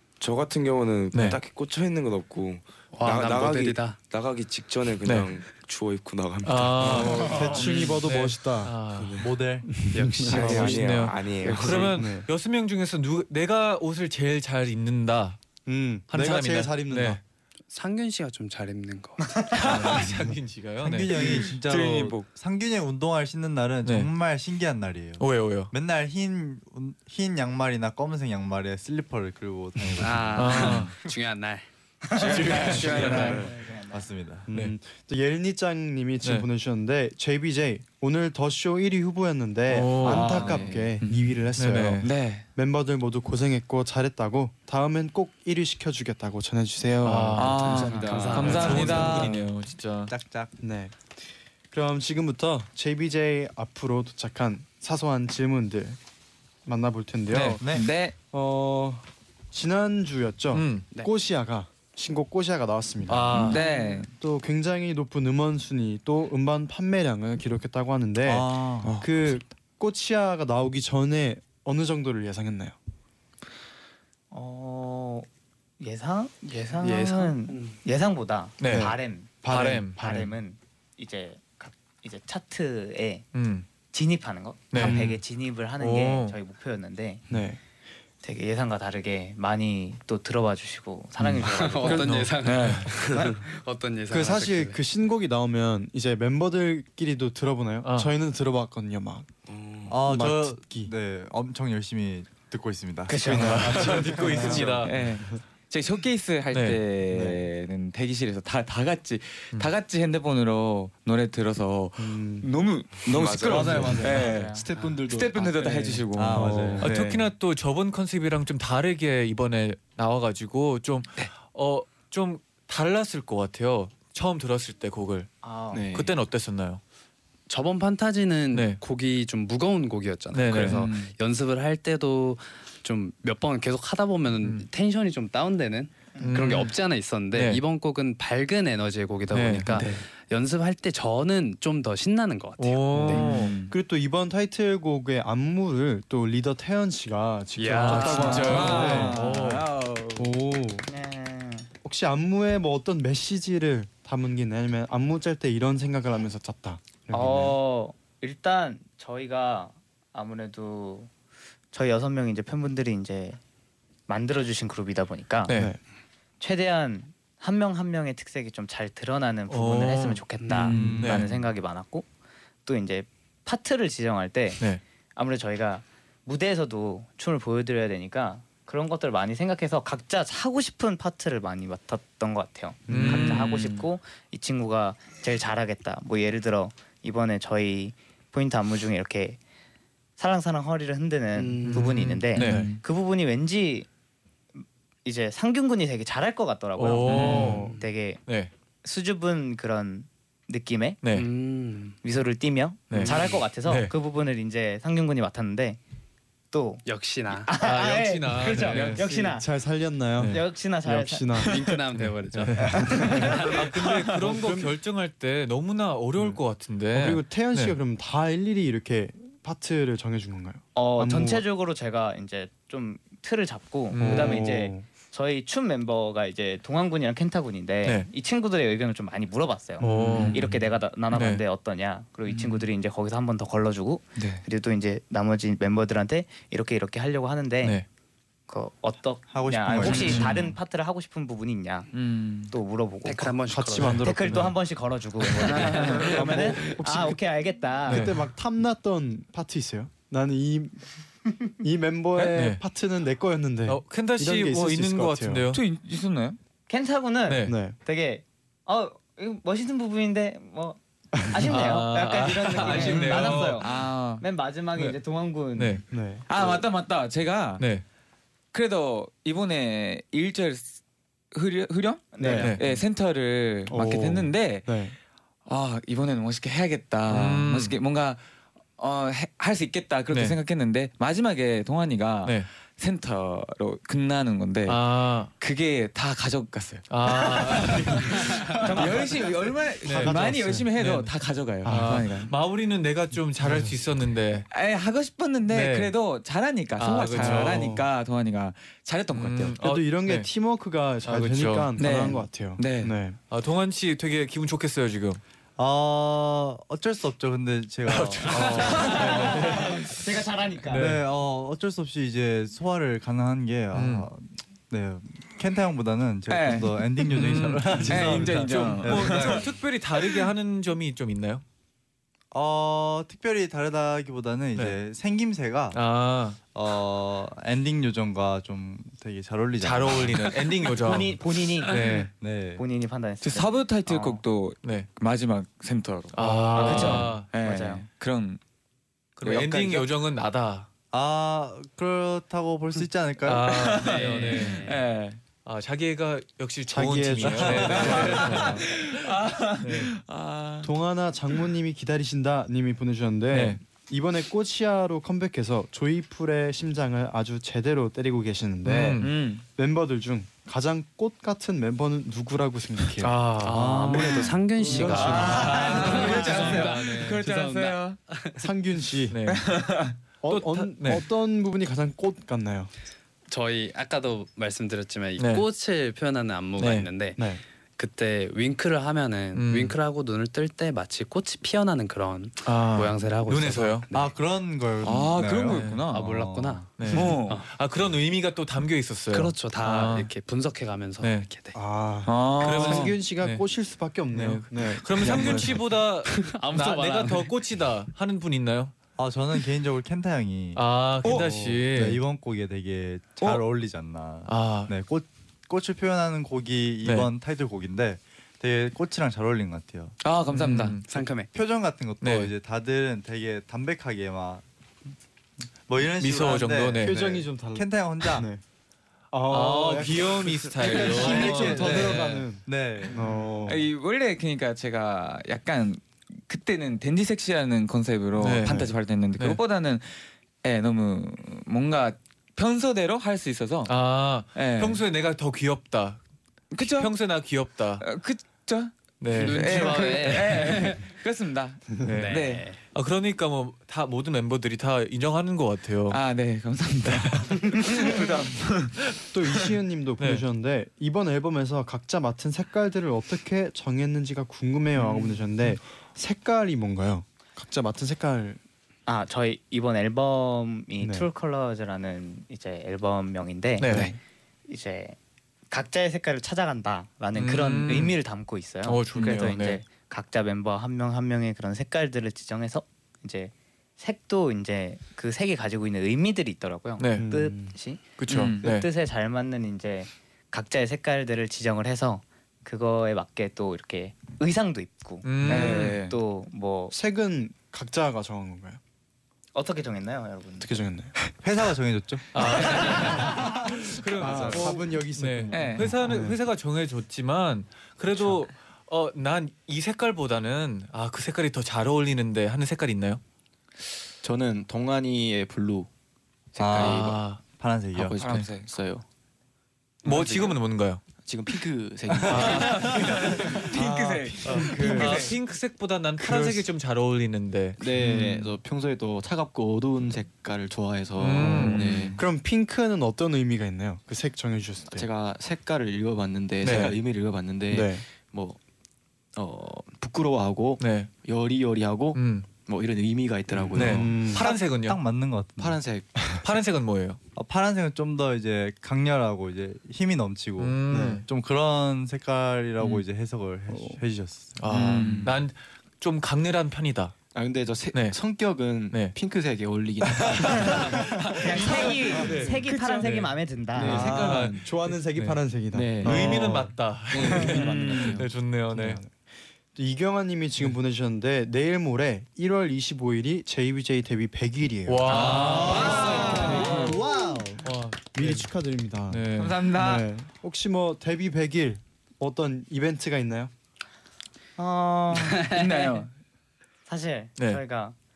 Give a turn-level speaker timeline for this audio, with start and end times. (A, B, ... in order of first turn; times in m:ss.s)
0:00.2-0:07.4 A
0:01.1-0:01.4 B
0:02.9-0:04.0 C
0:05.0-0:05.3 B
0:06.4-0:09.3 B
0:06.8-0:10.8 D
0:09.2-0:09.8 E
0:09.9-0:11.7 C
0:10.2-0:12.0 A
0:10.4-0:15.4 B
0:11.7-0:12.3 D
0:15.6-0:17.2 D
0:16.1-0:17.2 B
0:17.7-0:19.4 C
0:19.2-0:19.5 F
0:19.5-0:21.4 B
0:20.8-0:31.0 E
0:21.1-0:22.3 G
0:23.8-0:24.1 B
0:25.2-0:25.7 B
0:30.0-0:33.5 C
0:30.0-0:30.9 B
0:32.2-0:33.4 B
0:32.2-0:33.5 G
0:32.2-0:34.1 F
0:32.9-0:33.3 E
0:33.9-0:34.5 E
0:34.5-0:49.4 D
0:39.7-0:40.4 B
0:40.1-0:40.8 E
0:40.3-0:40.9 H
0:40.3-0:41.2 G
0:41.6-0:42.1 B
0:42.0-0:42.4 G
0:47.0-0:47.8 B
0:47.3-0:49.4 G
0:47.6-0:49.1 C
0:47.6-0:49.1 H
0:48.4-0:50.1 B
0:48.8-0:49.4 E
0:50.1-0:50.5 E
0:50.6-0:56.0 D
0:56.6-0:57.6 D
0:57.3-0:57.6 B
0:57.6-0:57.8 E
0:57.6-0:58.1 G
0:58.3-1:03.6 D
1:00.5-1:00.9 B
1:03.1-1:03.6 B
1:03.3-1:04.1 G
1:03.5-1:04.0 C
1:04.2-1:12.8 D
1:08.2-1:08.9 E
1:14.3-1:15.3 F
1:15.8-1:23.2 F
1:16.6-1:17.8 C
1:18.6-1:20.0 B
1:18.6-1:20.3 D
1:23.3-1:23.7 B
1:23.9-1:27.2 F
1:24.7-1:25.0 B
1:24.7-1:25.2 D
1:25.8-1:26.3 B
1:27.3-1:27.6 D
1:28.2-1:32.2 F
1:31.4-1:34.8 C
1:31.9-1:32.9 B
1:32.4-1:32.9 G
1:34.1-1:40.9 D
1:37.8-1:38.1 B
1:39.9-1:44.6 E
1:43.1-1:44.6 F
1:43.2-1:45.0 B
1:43.2-1:44.8 D
1:44.3-1:56.9 G
1:46.5-1:46.8 B
1:47.1-1:47.4 D
1:52.0-1:52.5 D
1:53.1-1:54.0 A
1:53.4-1:54.3 E
1:53.6-1:56.0 H
1:54.2-1:54.6 F
1:56.1-1:57.2 E
1:56.3-1:56.9 D
1:56.8-2:05.3 B
2:05.4-2:05.8 F
2:05.7-2:06.1 H
2:05.9-2:06.8 B
2:07.5-2:23.3 C
2:08.5-2:08.8 B
2:10.3-2:10.9 B
2:10.6-2:11.1 G
2:16.2-2:16.7 B
2:17.3-2:17.6 B
2:19.3-2:19.8 B
2:19.8-2:20.0 G
2:22.6-2:23.5 B
2:23.0-2:29.2 D
2:23.0-2:23.7 G
2:27.6-2:29.0 C
2:27.7-2:29.6 B
2:27.9-2:30.3 G
2:30.1-2:30.9 D
2:30.9-2:31.7 F
2:31.8-2:37.6 D
2:37.1-2:41.1 F
2:41.7-2:43.4 F
2:44.1-2:45.5 F
2:45.5-2:45.7 B
2:45.5-2:45.8 D
2:46.4-2:52.1 F
2:49.5-2:50.2 B
2:50.4-2:50.9 C
2:50.7-2:51.0 G
2:50.7-2:51.2 E
2:51.0-2:51.3 B
2:52.6-2:54.6 F
2:55.2-3:09.4 F
3:02.9-3:03.4 D
3:02.9-3:03.6 B
3:03.4-3:03.8 G
3:10.2-3:13.9 F
3:11.3-3:12.2 C
3:11.7-3:12.7 B
3:12.4-3:12.8 G
3:14.6-3:18.2 F
3:16.8-3:17.6 B
3:17.1-3:17.8 C
3:17.1-3:17.8 D
3:18.2-3:18.5 B
3:18.8-3:21.0 F
3:21.0-3:21.3 B
3:21.1-3:22.0 C
3:22.0-3:25.8 F
3:22.9-3:23.9 B
3:23.0-3:23.4 C
3:26.5-3:29.5 F
3:26.8-3:27.5 C
3:27.6-3:29.0 B
3:28.7-3:29.2 G
3:29.0-3:31.6 D
3:30.3-3:31.5 F
3:31.5-3:33.6 C
3:31.9-3:37.8 B
3:32.4-3:33.4 D
3:34.2-3:34.7 D
3:36.9-3:41.4 D
3:40.7-3:57.8 F
3:43.9-3:44.4 B
3:44.0-3:44.9 D
3:49.8-3:50.5 D
3:49.8-3:50.5 B
3:51.1-3:51.4 B
3:52.3-3:52.6 G
3:58.5-4:01.9 F
3:59.3-4:00.5 E
3:59.8-4:00.2 G
4:01.9-4:02.5 G
4:02.5-4:03.4 F
4:03.0-4:04.2 C
4:03.5-4:04.6 D
4:04.0-4:08.1 F
4:05.4-4:06.5 G
4:05.5-4:06.0 C
4:05.9-4:07.2 D
4:07.8-4:10.9 D
4:07.9-4:08.2 B
4:11.6-4:15.5 D
4:12.3-4:12.6 B
4:13.7-4:15.6 B
4:15.5-4:16.4 G
4:16.7-4:25.8 F
4:17.3-4:17.5 B
4:17.4-4:17.8 D
4:21.4-4:23.6 B
4:22.6-4:24.2 G
4:25.5-4:25.8 B
4:25.9-4:26.3 D
4:26.3-4:27.6 G
4:27.6-4:27.8 B
4:28.5-4:30.8 G
4:31.3-4:34.7 G
4:32.1-4:32.6 F
4:32.2-4:32.5 D
4:32.4-4:32.7 B
4:33.7-4:34.9 D
4:35.4-4:38.2 G
4:37.1-4:37.7 B
4:38.8-4:52.3 G
4:40.1-4:40.4 B
4:44.6-4:45.3 B
4:46.9-4:48.8 B
4:48.6-4:49.0 F
4:49.8-4:50.2 B
4:49.8-4:50.7 D
4:50.7-4:54.5 B
4:51.6-4:52.0 D
4:53.4-4:53.8 D
4:54.5-4:59.6 G
4:55.5-4:55.9 B
4:56.8-4:57.7 B
4:57.1-4:57.8 D
4:59.1-5:00.3 B
4:59.6-5:03.2 D
5:01.0-5:01.8 B
5:01.8-5:02.9 G
5:03.3-5:05.2 B
5:05.6-5:09.3 E
5:07.8-5:10.1 B
5:08.7-5:10.9 F
5:10.7-5:11.0 B
5:10.7-5:19.5 E
5:13.7-5:14.1 B
5:16.3-5:19.4 G
5:17.1-5:21.4 B
5:17.8-5:18.4 D
5:22.3-5:25.8 E
5:25.7-5:26.4 B
5:26.5-5:30.4 E
5:29.6-5:32.1 B
5:30.8-5:31.8 F
5:31.8-5:32.6 E
5:32.6-5:34.2 F
5:33.2-5:38.4 G
5:34.6-5:34.9 B
5:36.1-5:37.3 B
5:36.5-5:37.8 F
5:39.2-5:40.7 B
5:39.2-5:39.9 G
5:40.9-5:43.5 E
5:43.2-5:44.7 B
5:43.4-5:45.2 G
5:43.8-5:44.8 C
5:45.4-5:48.9 B
5:46.7-5:48.6 D
5:47.2-5:50.7 G
5:49.6-5:49.9 B
5:50.6-6:03.2 D
5:53.3-5:53.6 B
5:58.6-5:59.1 B
5:59.0-5:59.4 G
6:03.0-6:04.3 B
6:03.4-6:08.5 C
6:03.5-6:04.4 E
6:03.9-6:06.1 D
6:04.6-6:08.0 G
6:04.8-6:07.0 B
6:08.3-6:09.2 D
6:09.1-6:11.0 B
6:09.3-6:09.9 G
6:10.2-6:12.7 D
6:13.3-6:17.2 C
6:15.2-6:15.4 B
6:16.6-6:16.9 B
6:17.2-6:17.4 D
6:17.8-6:24.2 C
6:19.3-6:19.8 B
6:22.4-6:23.8 B
6:23.9-6:26.6 E
6:24.8-6:26.2 G
6:25.5-6:25.8 B
6:25.9-6:27.5 C
6:26.8-6:30.1 B
6:26.9-6:27.4 G
6:29.1-6:31.6 C
6:31.0-6:31.3 B
6:31.5-6:35.6 D
6:32.0-6:33.0 G
6:32.4-6:33.4 B
6:34.1-6:38.7 B
6:36.0-6:37.3 C
6:39.0-6:40.6 E
6:40.6-6:42.0 B
6:41.0-6:41.3 G
6:41.1-6:41.6 D
6:41.6-6:50.0 E
6:44.2-6:44.7 B
6:46.8-6:47.1 B
6:50.0-6:50.8 G
6:50.3-6:50.9 B
6:50.9-6:51.3 C
6:51.3-6:54.4 E
6:52.0-6:52.3 B
6:55.7-6:58.3 E
6:56.0-6:57.0 B
6:56.8-6:58.4 D
6:59.1-7:03.6 D
6:59.3-7:02.3 B
7:00.7-7:03.1 E
7:00.7-7:01.2 G
7:03.4-7:13.7 G
7:08.2-7:08.6 B
7:08.4-7:08.7 D
7:09.1-7:09.4 B
7:13.6-7:16.0 B
7:14.3-7:14.8 G
7:16.5-7:16.9 G
7:16.6-7:17.8 B
7:17.8-7:22.4 G
7:19.0-7:20.6 B
7:19.1-7:20.9 C
7:21.8-7:26.0 B
7:21.8-7:22.6 C
7:25.9-7:28.8 G
7:27.3-7:27.8 B
7:29.1-7:38.4 D
7:30.0-7:30.2 B
7:38.9-7:43.7 F
7:40.8-7:41.1 D
7:43.6-7:43.9 B
7:43.7-7:44.0 D
7:44.5-7:45.0 F
7:45.5-8:06.7 F
7:47.1-7:48.0 B
7:48.6-7:49.6 B
7:56.8-7:57.1 B
7:56.9-7:57.5 D
7:58.0-7:58.6 B
7:58.1-7:58.4 G
8:05.0-8:05.8 B
8:05.2-8:06.0 G
8:06.7-8:08.6 D
8:09.3-8:10.6 F
8:10.4-8:11.0 D
8:11.2-8:12.2 E
8:12.1-8:23.0 B
8:12.5-8:12.9 G
8:12.6-8:16.2 D
8:15.3-8:15.7 G
8:24.0-8:25.7 H
8:26.3-8:27.0 H
8:26.4-8:28.0 E
8:26.4-8:26.9 G
8:26.6-8:27.2 B
8:27.7-8:28.8 H
8:27.8-8:28.5 G
8:29.8-8:30.3 H
8:29.8-8:30.8 B
8:31.0-8:33.4 H
8:32.0-8:32.6 E
8:32.0-8:38.0 B
8:32.1-8:35.1 G
8:34.2-8:35.0 D
8:36.0-8:36.4 D
8:37.6-8:42.0 H
8:41.0-8:41.9 B
8:41.2-8:44.9 D
8:41.6-8:41.9 G
8:44.7-8:48.4 H
8:46.4-8:46.7 B
8:47.5-8:47.8 D
8:49.2-8:54.3 H
8:50.6-8:50.9 B
8:51.9-8:52.3 B
8:53.3-8:54.2 D
8:53.5-8:54.8 B
8:54.0-8:55.6 E
8:55.4-8:56.1 H
8:56.2-8:57.0 B
8:57.2-9:04.4 E
9:00.4-9:01.0 B
9:00.7-9:01.0 D
9:03.5-9:03.8 D
9:04.4-9:06.9 B
9:04.5-9:05.1 G
9:04.8-9:05.1 H
9:07.1-9:12.1 H
9:07.7-9:08.0 B
9:08.5-9:09.0 B
9:10.3-9:13.1 B
9:11.1-9:13.8 F
9:11.3-9:12.9 G
9:13.5-9:14.5 H
9:13.6-9:17.5 D
9:13.6-9:15.2 B
9:15.5-9:18.0 H
9:15.8-9:18.8 B
9:17.0-9:18.0 G
9:18.5-9:18.9 D
9:19.5-9:27.4 D
9:24.6-9:26.8 B
9:24.9-9:26.8 G
9:25.0-9:27.4 E
9:27.4-9:28.3 B
9:27.9-9:33.3 D
9:28.9-9:29.4 B
9:29.1-9:29.9 G
9:34.4-9:35.4 F
9:35.1-9:35.9 G
9:36.7-9:37.8 F